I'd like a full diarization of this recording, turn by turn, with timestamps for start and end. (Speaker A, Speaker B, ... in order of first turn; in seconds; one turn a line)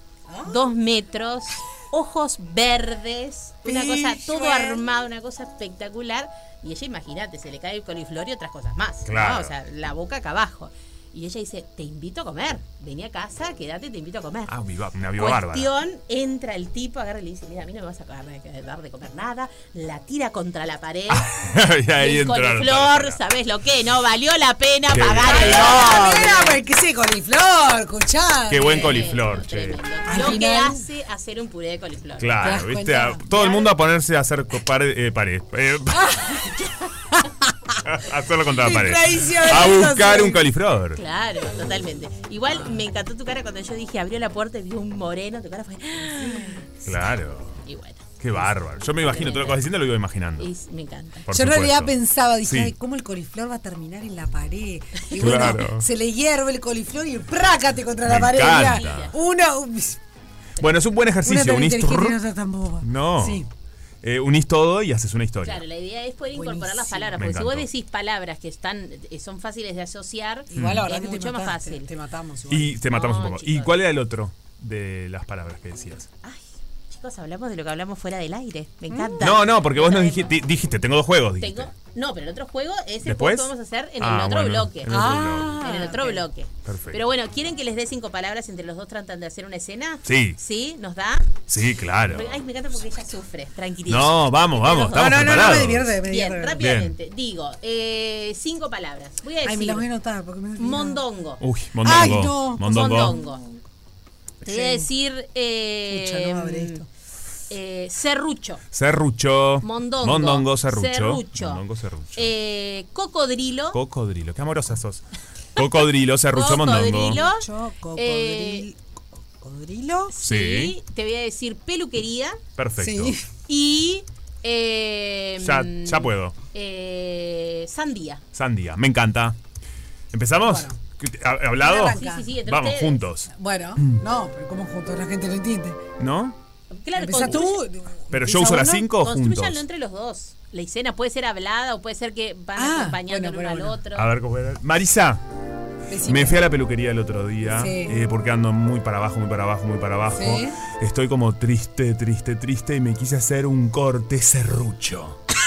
Speaker A: 0.3-0.7
Speaker B: 0.5-14.5
Speaker A: 3.6-4.8
Speaker C: 9.1-9.5
Speaker C: 14.5-15.7
Speaker B: 15.2-21.3
Speaker C: 21.1-23.2
Speaker B: 22.0-26.6
Speaker C: 24.9-26.1
Speaker A: 25.2-29.1
Speaker C: 28.5-29.8
Speaker B: 28.6-32.6
Speaker A: 30.1-30.9
Speaker C: 32.2-36.2
Speaker A: 32.4-33.2
Speaker B: 33.3-33.8
Speaker A: 35.9-37.8
Speaker C: 37.8-41.0
Speaker A: 38.6-40.4
Speaker B: 40.9-46.7
Speaker A: 46.2-46.6
Speaker C: 46.8-47.6
Speaker B: 47.6-48.2
Speaker C: 48.2-50.5
Speaker B: 49.0-49.6
Speaker B: 50.4-51.2
Speaker C: 51.3-51.9
Speaker A: 51.3-60.0
Speaker C: 52.5-52.7
Speaker C: 55.2-55.9
Speaker C: 58.0-59.1
Speaker B: 58.5-59.1
Speaker C: 60.6-62.2
Speaker A: 61.2-63.5
Speaker C: 62.8-63.4
Speaker C: 64.0-65.6
Speaker B: 65.4-71.9
Speaker A: 66.3-67.2
Speaker C: 67.2-67.7
Speaker A: 70.5-72.8
Speaker C: 70.5-70.9
Speaker C: 72.5-76.1
Speaker B: 72.9-73.8
Speaker B: 76.2-80.3
Speaker A: 78.9-79.2
Speaker C: 79.2-81.7
Speaker B: 81.4-91.4
Speaker C: 83.0-85.7
Speaker A: 84.9-86.3
Speaker C: 86.6-87.0
Speaker C: 90.0-90.4
Speaker C: 91.5-92.4
Speaker B: 92.0-95.2
Speaker C: 93.9-96.0
Speaker A: 94.7-96.6
Speaker B: 96.0-99.9
Speaker C: 96.6-96.9
Speaker A: 99.4-101.0
Speaker B: 100.6-101.4
Speaker C: 101.4-103.2
Speaker A: 101.8-102.6
Speaker B: 102.6-103.4
Speaker A: 104.4-104.9
Speaker B: 104.4-106.8
Speaker A: 105.9-106.9
Speaker B: 107.5-108.6
Speaker C: 108.7-112.3
Speaker B: 109.6-111.6
Speaker B: 112.2-113.8
Speaker C: 113.7-115.0
Speaker C: 115.5-117.2
Speaker B: 116.3-118.7
Speaker A: 117.1-118.8
Speaker A: 119.4-120.1
Speaker B: 120.1-122.4
Speaker C: 120.2-120.7
Speaker C: 122.6-123.2
Speaker A: 122.8-123.2
Speaker B: 123.5-128.2
Speaker C: 125.4-126.4
Speaker C: 128.3-129.4
Speaker C: 130.1-134.0
Speaker A: 130.4-130.8
Speaker A: 131.6-132.3
Speaker B: 131.6-133.1
Speaker A: 133.3-135.8
Speaker C: 136.0-136.4
Speaker B: 136.7-137.6
Speaker A: 136.9-138.8
Speaker C: 138.1-139.6
Speaker B: 138.3-144.1
Speaker A: 142.6-143.8
Speaker C: 143.9-145.2
Speaker A: 145.9-146.4
Speaker C: 146.1-155.2
Speaker A: 147.4-148.0
Speaker A: 150.1-150.6